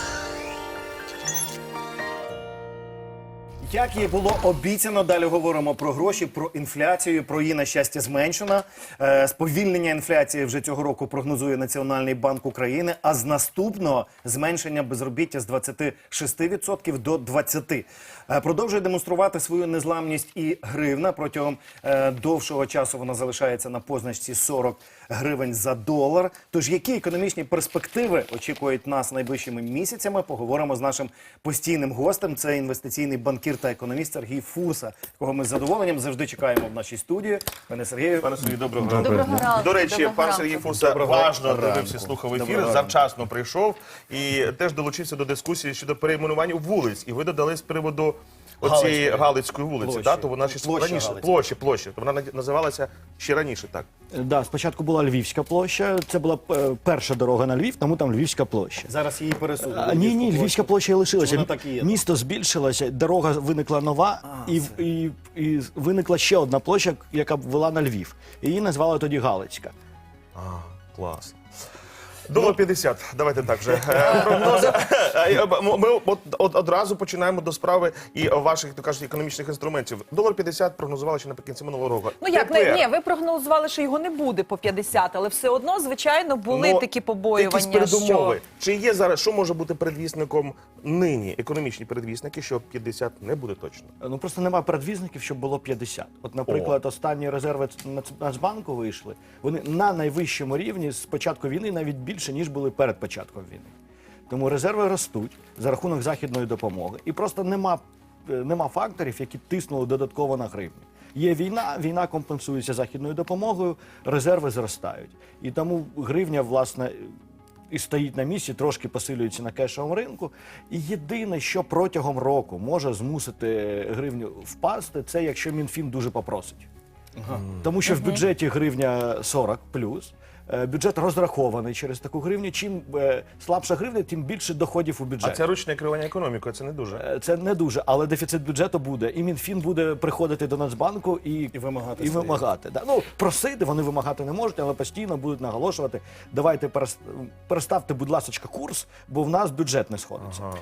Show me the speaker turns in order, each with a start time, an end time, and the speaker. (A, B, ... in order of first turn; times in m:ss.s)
0:03.6-0:38.4 A
0:38.2-0:53.9 B
0:39.2-0:40.5 C
0:40.7-0:43.0 A
0:48.6-0:51.4 A
0:54.1-0:58.9 D
0:58.9-1:02.0 A
0:59.6-1:09.7 D
1:10.4-1:11.4 B
1:12.3-1:22.9 B
1:22.2-1:28.4 C
1:26.5-1:33.9 B
1:34.0-1:43.7 D
1:36.5-1:36.8 B
1:44.3-1:57.1 D
1:57.7-2:06.7 D
2:07.2-2:07.4 A
2:07.5-2:15.4 D
2:15.2-2:17.0 B
2:17.0-2:30.5 D
2:21.5-2:22.4 A